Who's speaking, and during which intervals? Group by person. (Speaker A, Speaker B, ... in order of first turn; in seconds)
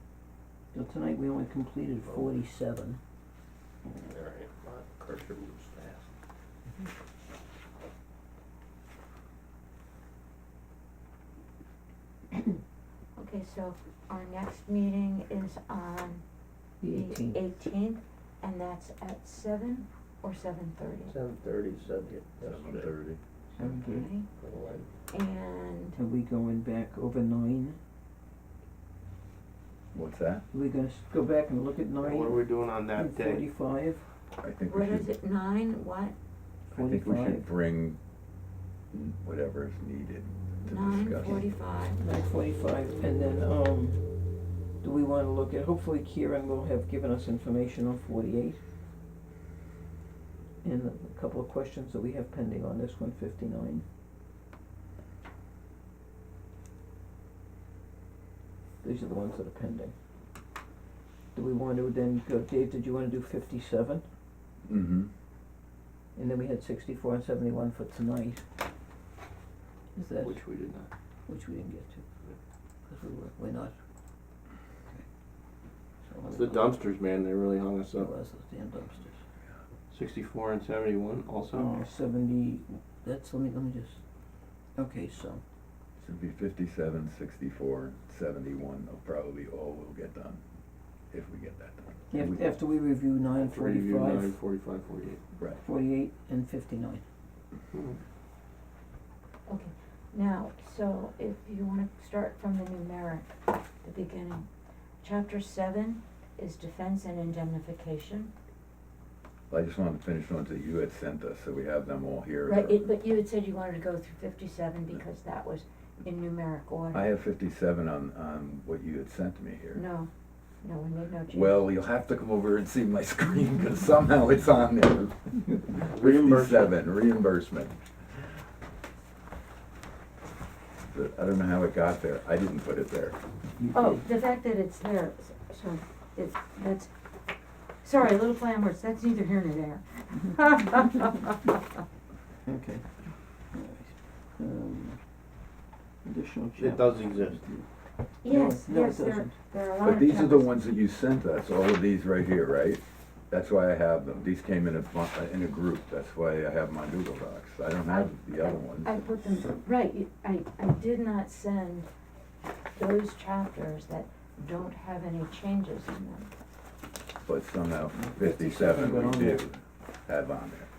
Speaker A: 0.7-3.0, 16.8-17.4, 23.6-24.1, 25.9-27.8, 30.5-34.0, 36.7-37.5, 42.0-44.1, 44.8-48.6, 50.6-53.8, 58.8-59.9, 61.3-64.0, 66.1-68.4, 69.9-70.4, 71.3-72.1, 72.9-73.8, 76.0-76.7, 77.9-79.2, 81.5-84.0, 84.8-85.4, 92.1-94.4, 95.6-97.0, 133.6-134.0, 142.4-145.0, 146.0-147.7, 148.2-149.3, 167.9-169.4
Speaker B: 2.0-2.3, 4.0-6.1, 21.1-22.9, 24.4-24.9, 32.0-33.4, 70.2-70.9, 76.2-78.1, 79.9-81.8, 93.3-95.2, 97.7-98.0, 125.9-126.7, 146.6-147.4
Speaker C: 13.2-16.2, 16.8-21.1, 23.6-24.3, 25.1-25.9, 34.6-36.1, 40.6-42.0, 99.5-103.3, 103.8-104.5, 105.0-108.3, 112.5-117.0, 119.7-120.1, 120.6-121.6, 133.7-136.9, 137.8-141.3, 148.2-150.5, 157.9-161.9, 162.7-166.3
Speaker D: 22.4-23.2, 29.9-30.4, 34.4-35.1, 36.7-38.0, 38.9-41.5, 64.7-65.1, 86.0-90.4, 91.1-92.4, 95.3-95.6, 109.5-112.8, 116.9-119.8, 121.3-127.7, 130.9-133.2, 149.8-158.9, 167.2-170.7